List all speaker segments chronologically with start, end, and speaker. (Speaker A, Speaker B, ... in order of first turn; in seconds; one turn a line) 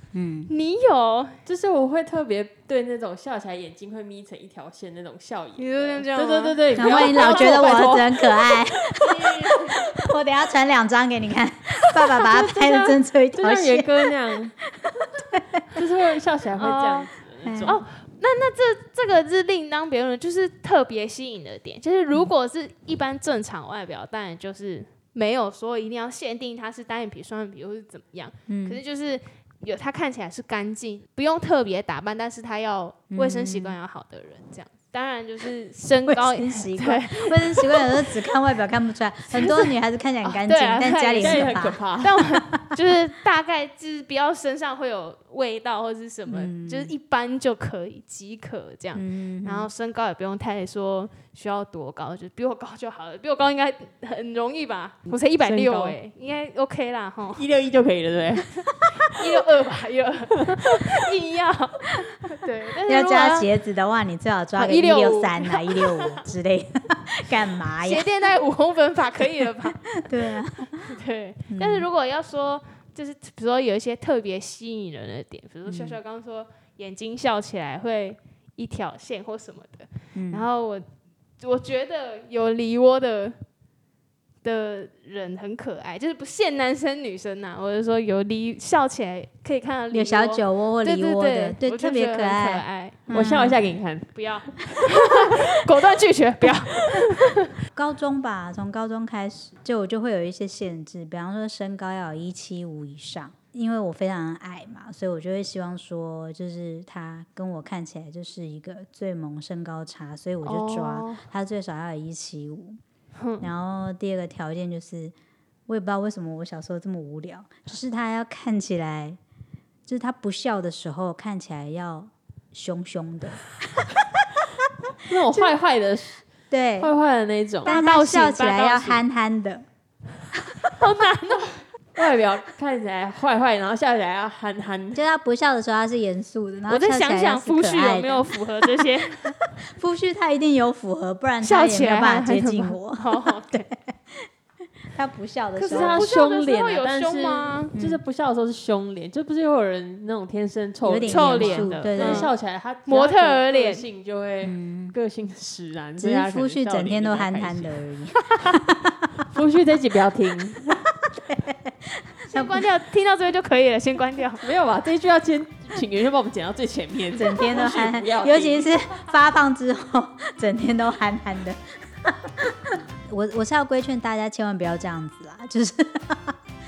Speaker A: 0.1-0.5
Speaker B: 0.5-1.4
Speaker C: 1.5-9.9
Speaker B: 5.6-7.6
Speaker A: 6.8-14.0
Speaker C: 12.2-14.6
Speaker A: 14.8-15.8
Speaker C: 15.8-17.8
Speaker B: 16.6-38.0
Speaker A: 17.4-17.8
Speaker A: 28.5-28.8
Speaker A: 33.1-33.8
Speaker A: 36.0-42.8
Speaker B: 39.3-39.7
Speaker B: 40.2-57.5
Speaker C: 41.2-42.2
Speaker A: 46.3-46.9
Speaker A: 49.0-49.7
Speaker C: 55.1-56.0
Speaker C: 57.4-58.6
Speaker B: 58.5-63.5
Speaker A: 62.9-68.1
Speaker B: 64.6-66.2
Speaker B: 67.8-69.9
Speaker A: 69.8-70.9
Speaker B: 70.8-80.8
Speaker A: 71.5-71.9
Speaker A: 75.7-76.0
Speaker A: 80.2-80.5
Speaker B: 81.4-83.3
Speaker B: 84.4-93.4
Speaker A: 89.9-93.6
Speaker C: 93.1-94.1
Speaker B: 94.1-97.4
Speaker A: 97.8-112.8
Speaker B: 110.5-111.2
Speaker B: 113.2-113.5
Speaker A: 113.4-115.1
Speaker A: 115.7-119.2
Speaker A: 119.9-124.1
Speaker C: 125.0-126.2
Speaker A: 126.5-126.9
Speaker C: 126.8-127.7
Speaker B: 127.7-129.0
Speaker A: 127.7-129.7
Speaker B: 130.7-131.7
Speaker C: 131.9-135.0
Speaker A: 134.9-138.3
Speaker B: 136.7-139.3
Speaker A: 139.3-144.3
Speaker B: 141.4-143.7
Speaker A: 144.9-146.1
Speaker B: 145.6-147.7
Speaker C: 145.7-157.8
Speaker A: 147.8-148.0
Speaker A: 150.8-152.3
Speaker B: 151.0-152.3
Speaker B: 152.9-153.8
Speaker A: 154.4-155.0
Speaker A: 156.0-159.1
Speaker C: 159.3-160.8
Speaker A: 160.7-162.7
Speaker B: 162.3-164.4
Speaker C: 164.4-168.7
Speaker A: 167.1-176.4